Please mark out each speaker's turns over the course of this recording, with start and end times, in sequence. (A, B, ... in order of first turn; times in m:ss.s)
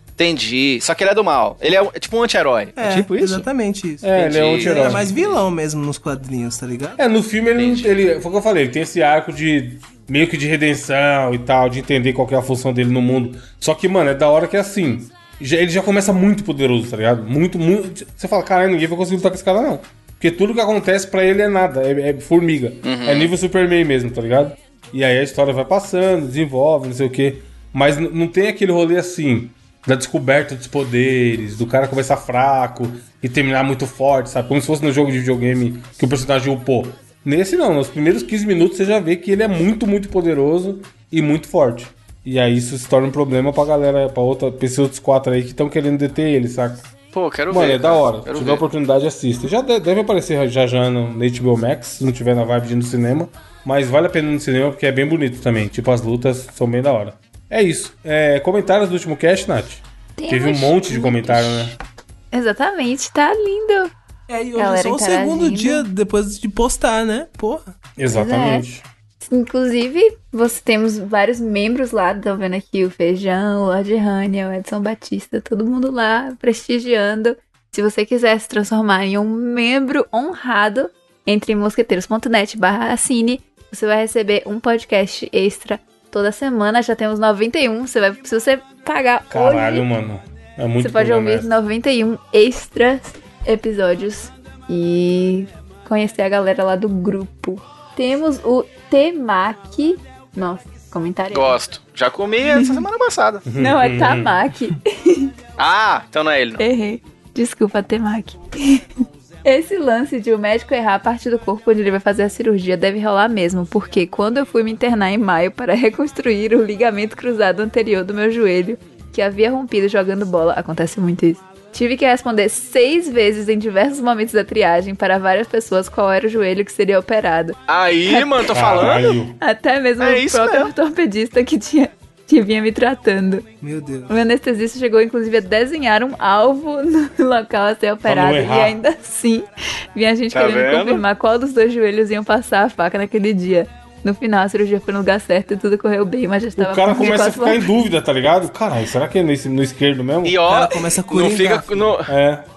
0:00.2-0:03.5 A
0:02.8-0:07.0 B
0:04.0-0:05.1 C
0:04.1-0:05.4 A
0:07.0-0:46.9 C
0:07.6-0:07.9 A
0:22.8-0:23.3 A
0:47.1-0:48.6 A
0:47.5-1:01.8 C
1:00.2-1:01.8 D
1:02.3-1:03.9 D
1:04.3-1:07.6 B
1:04.6-1:05.9 D
1:08.0-1:08.8 C
1:08.1-1:08.6 D
1:09.2-1:29.9 D
1:29.3-1:31.5 C
1:30.8-1:41.6 D
1:41.3-1:43.4 A
1:42.5-1:42.8 D
1:43.4-1:44.7 C
1:43.6-1:45.3 D
1:45.6-1:46.6 A
1:46.6-1:48.9 D
1:49.4-2:07.6 D
2:07.7-2:09.2 A
2:08.1-2:08.4 D
2:08.5-2:09.4 C
2:09.4-2:13.4 D
2:10.0-2:10.7 A
2:13.6-2:14.1 B
2:14.1-2:27.7 D
2:18.0-2:18.8 C
2:20.3-2:21.0 A
2:26.6-2:30.4 C
2:30.2-2:32.1 A
2:30.4-2:31.9 B
2:32.1-2:32.5 C